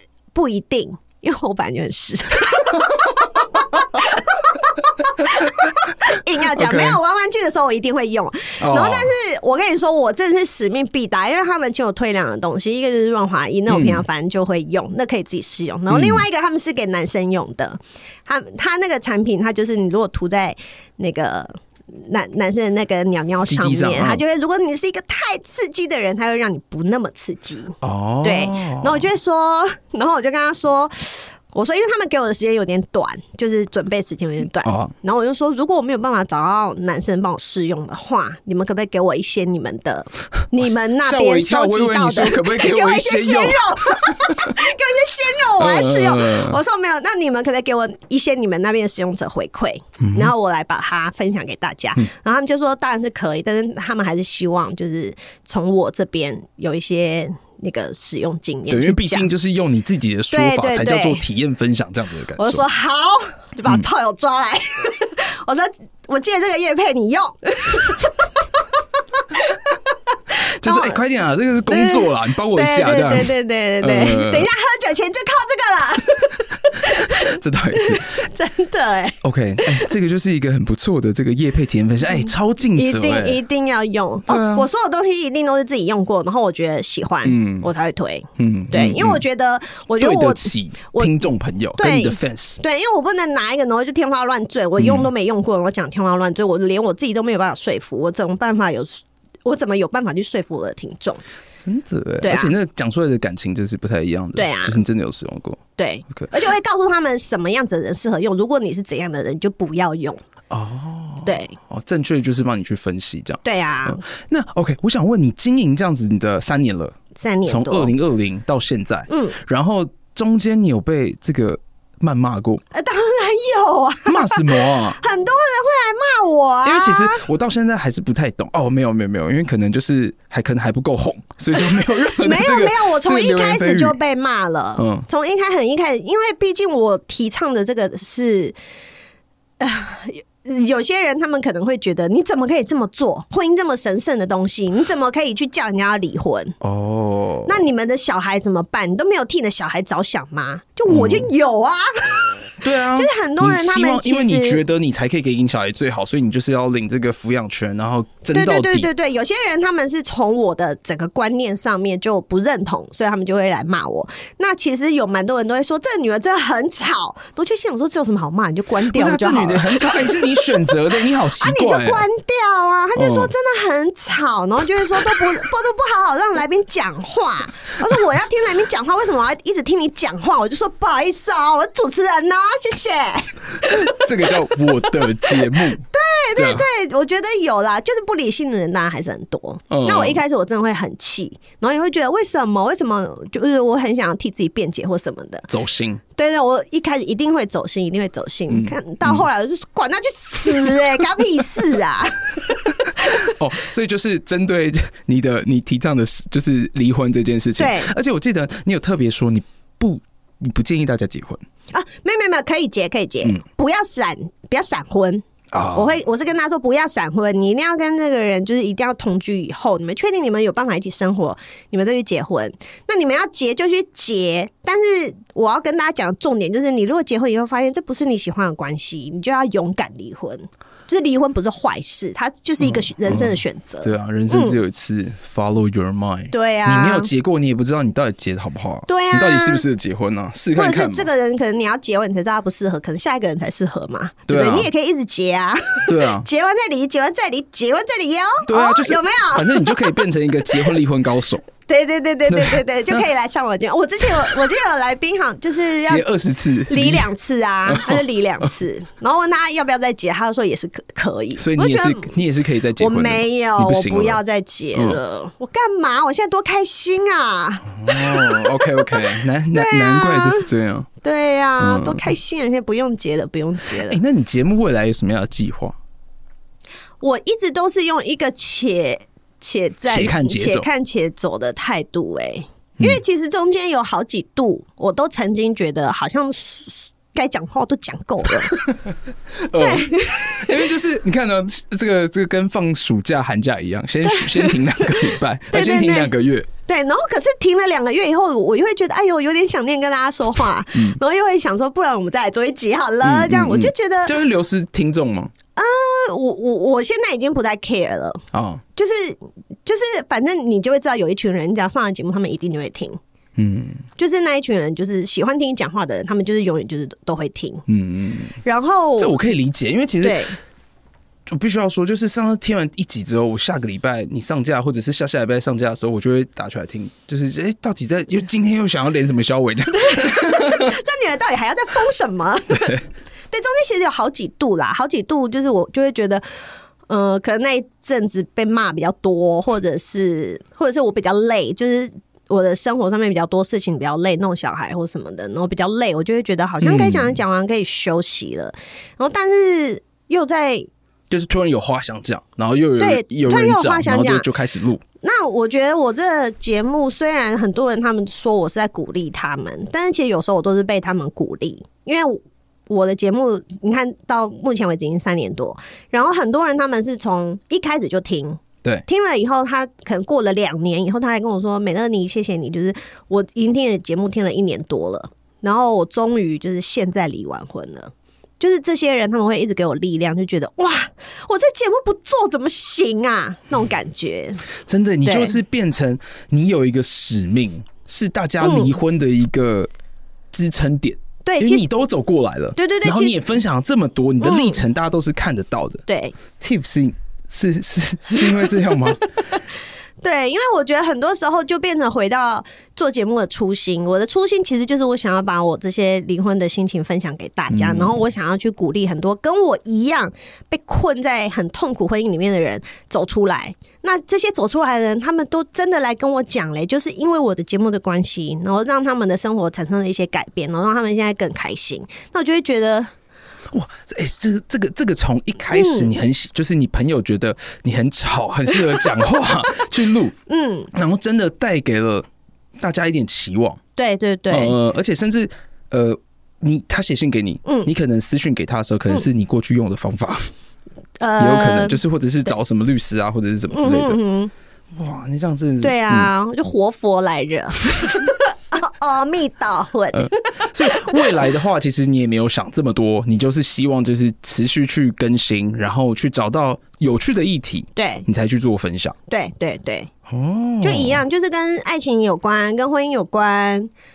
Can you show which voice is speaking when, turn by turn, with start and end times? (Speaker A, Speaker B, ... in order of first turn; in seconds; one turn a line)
Speaker A: 0.3-59.3
Speaker B: 6.5-7.0
Speaker B: 8.6-9.1
Speaker B: 13.7-14.0
Speaker B: 15.9-16.2
Speaker B: 23.4-24.2
Speaker B: 27.8-29.1
Speaker B: 34.6-34.9
Speaker B: 41.0-44.6
Speaker B: 45.5-46.6
Speaker B: 50.0-50.3
Speaker B: 58.7-62.6
Speaker A: 60.3-61.2
Speaker A: 62.4-68.3
Speaker A: 69.3-69.7
Speaker B: 70.6-74.5
Speaker A: 70.6-71.0
Speaker A: 71.7-79.9
Speaker B: 77.1-78.2
Speaker B: 79.2-83.4
Speaker A: 82.7-91.2
Speaker B: 84.2-84.7
Speaker B: 87.2-87.7
Speaker B: 88.4-89.2
Speaker B: 90.0-92.6
Speaker A: 91.8-101.2
Speaker B: 94.8-95.1
Speaker B: 101.5-106.3
Speaker A: 102.2-102.5
Speaker A: 104.3-104.8
Speaker A: 105.8-110.2
Speaker B: 110.5-122.6
Speaker A: 111.2-111.5
Speaker A: 113.4-114.0
Speaker A: 117.1-117.9
Speaker A: 119.1-119.3
Speaker A: 122.7-127.2
Speaker B: 124.0-125.0
Speaker B: 126.6-134.0
Speaker A: 131.5-138.6
Speaker B: 134.8-135.1
Speaker A: 139.6-146.6
Speaker B: 146.6-147.6
Speaker A: 147.4-154.6
Speaker B: 150.9-151.3
Speaker B: 152.6-158.9
Speaker A: 158.3-170.7
Speaker B: 168.9-172.0
Speaker A: 171.4-184.2
Speaker B: 172.9-173.3
Speaker B: 183.6-186.6
Speaker A: 185.0-195.5
Speaker B: 189.7-190.2
Speaker B: 195.5-196.0
Speaker A: 196.2-203.2
Speaker B: 198.5-199.2
Speaker B: 203.0-211.4
Speaker A: 207.6-207.9
Speaker A: 211.7-234.6
Speaker B: 215.5-215.9
Speaker B: 232.6-241.1
Speaker A: 236.3-237.1
Speaker A: 238.9-239.6
Speaker A: 240.5-250.0
Speaker B: 244.3-244.7
Speaker B: 245.9-246.3
Speaker B: 248.4-251.4
Speaker A: 251.7-256.1
Speaker B: 252.3-253.0
Speaker B: 255.8-257.1
Speaker A: 256.7-262.1
Speaker B: 257.6-258.0
Speaker B: 261.4-264.2
Speaker A: 262.8-269.0
Speaker B: 264.7-265.0
Speaker B: 267.7-270.9
Speaker A: 269.5-270.5
Speaker A: 271.0-274.0
Speaker B: 271.6-272.1
Speaker B: 273.8-275.8
Speaker A: 277.0-288.6
Speaker B: 279.9-280.7
Speaker B: 289.3-296.5
Speaker A: 289.6-290.6
Speaker A: 294.0-294.9
Speaker A: 295.5-296.1
Speaker A: 296.6-304.2
Speaker B: 300.7-301.0
Speaker B: 303.0-305.3
Speaker A: 305.5-308.2
Speaker B: 308.3-308.6
Speaker A: 308.8-313.0
Speaker B: 313.4-313.8
Speaker A: 314.0-317.6
Speaker B: 317.7-318.4
Speaker A: 318.4-319.2
Speaker B: 319.0-320.2
Speaker A: 320.0-320.4
Speaker B: 321.3-330.7
Speaker A: 329.8-336.2
Speaker A: 336.9-350.7
Speaker B: 346.6-347.2
Speaker B: 351.1-354.8
Speaker A: 352.8-354.3
Speaker A: 355.0-384.4
Speaker B: 384.6-389.7
Speaker A: 385.0-385.4
Speaker A: 388.4-388.7
Speaker B: 390.3-399.0
Speaker A: 391.2-391.6
Speaker A: 392.6-393.2
Speaker A: 394.2-394.6
Speaker A: 395.9-396.2
Speaker A: 398.1-399.4
Speaker A: 400.0-422.9
Speaker B: 407.5-408.0
Speaker B: 423.5-430.1
Speaker A: 425.5-425.9
Speaker A: 430.3-430.7
Speaker B: 430.7-432.1
Speaker B: 432.6-433.6
Speaker A: 433.8-434.5
Speaker B: 434.3-440.3
Speaker A: 437.4-437.7
Speaker A: 441.0-441.8
Speaker B: 441.2-444.0
Speaker A: 443.5-444.3
Speaker B: 444.7-446.1
Speaker A: 445.6-451.1
Speaker B: 449.9-458.9
Speaker A: 457.8-458.0
Speaker A: 459.1-459.9
Speaker B: 460.1-461.0
Speaker A: 460.6-463.7